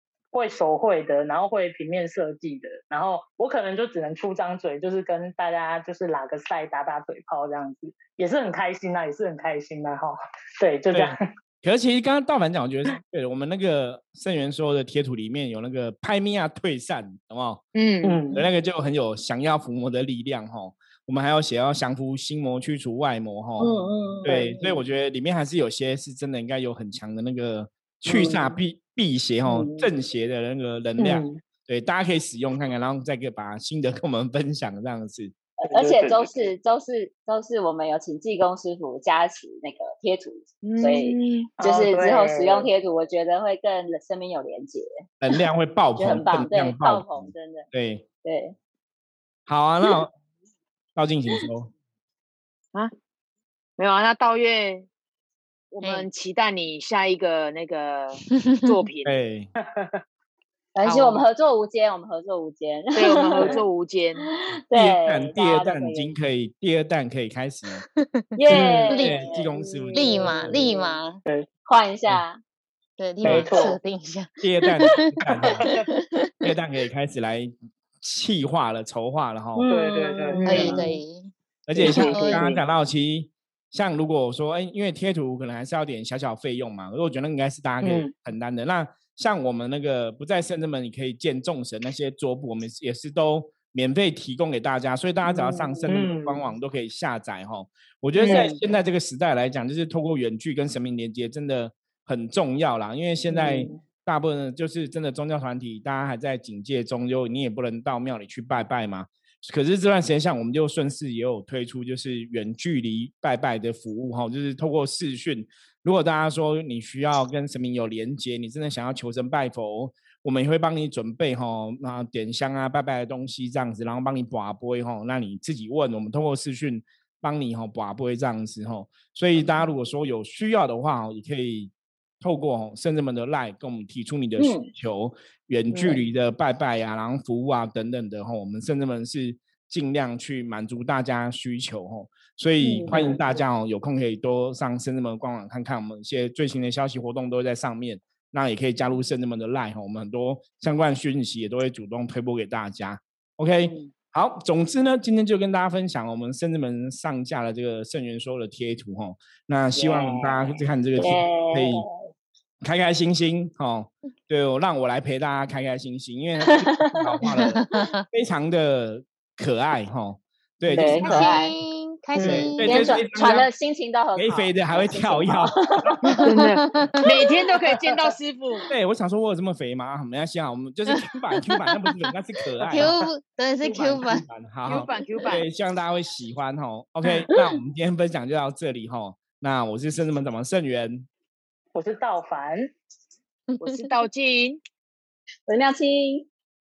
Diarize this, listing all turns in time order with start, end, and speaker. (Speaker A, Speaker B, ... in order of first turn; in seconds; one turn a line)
Speaker A: 0.3-11.2
Speaker B: 10.9-17.6
Speaker C: 17.8-18.2
Speaker A: 18.0-18.4
Speaker B: 18.3-35.3
Speaker D: 23.6-24.6
Speaker A: 24.3-24.6
Speaker D: 28.1-28.5
Speaker D: 29.4-29.9
Speaker A: 31.0-31.4
Speaker D: 35.6-44.9
Speaker A: 35.7-36.5
Speaker C: 40.6-41.4
Speaker A: 41.6-42.7
Speaker B: 45.2-48.1
Speaker D: 46.0-47.7
Speaker D: 48.2-48.5
Speaker B: 49.5-50.1
Speaker B: 51.0-51.7
Speaker C: 53.8-54.9
Speaker C: 55.7-59.2
Speaker E: 55.8-56.1
Speaker B: 59.0-59.5
Speaker A: 59.6-60.0
Speaker D: 60.8-63.6
Speaker E: 60.8-61.2
Speaker C: 63.0-64.2
Speaker D: 64.2-66.1
Speaker B: 64.7-67.9
Speaker E: 68.0-71.2
Speaker D: 68.4-71.0
Speaker B: 68.5-70.7
Speaker A: 68.5-68.9
Speaker D: 71.7-72.4
Speaker E: 73.0-75.1
Speaker B: 73.2-73.5
Speaker A: 73.2-73.8
Speaker B: 74.4-75.6
Speaker B: 76.4-79.7
Speaker D: 79.6-81.0
Speaker A: 79.7-80.8
Speaker C: 80.3-80.6
Speaker E: 80.5-81.3
Speaker B: 81.7-161.8
Speaker A: 81.8-82.5
Speaker D: 81.8-82.1
Speaker E: 82.1-82.5
Speaker A: 87.8-88.1
Speaker A: 95.9-96.4
Speaker A: 98.2-98.6
Speaker C: 98.2-98.6
Speaker D: 134.4-134.7
Speaker D: 142.6-143.2
Speaker D: 159.8-162.0
Speaker B: 162.6-171.4
Speaker D: 166.4-167.0
Speaker D: 170.7-171.6
Speaker E: 171.0-173.0
Speaker A: 172.2-172.5
Speaker B: 172.2-173.5
Speaker D: 172.4-176.0
Speaker B: 174.2-176.0
Speaker E: 176.1-177.0
Speaker C: 176.3-178.7
Speaker B: 178.7-182.9
Speaker E: 182.7-184.2
Speaker B: 183.6-191.1
Speaker C: 184.7-185.5
Speaker A: 191.8-192.7
Speaker C: 193.6-194.6
Speaker D: 195.5-196.3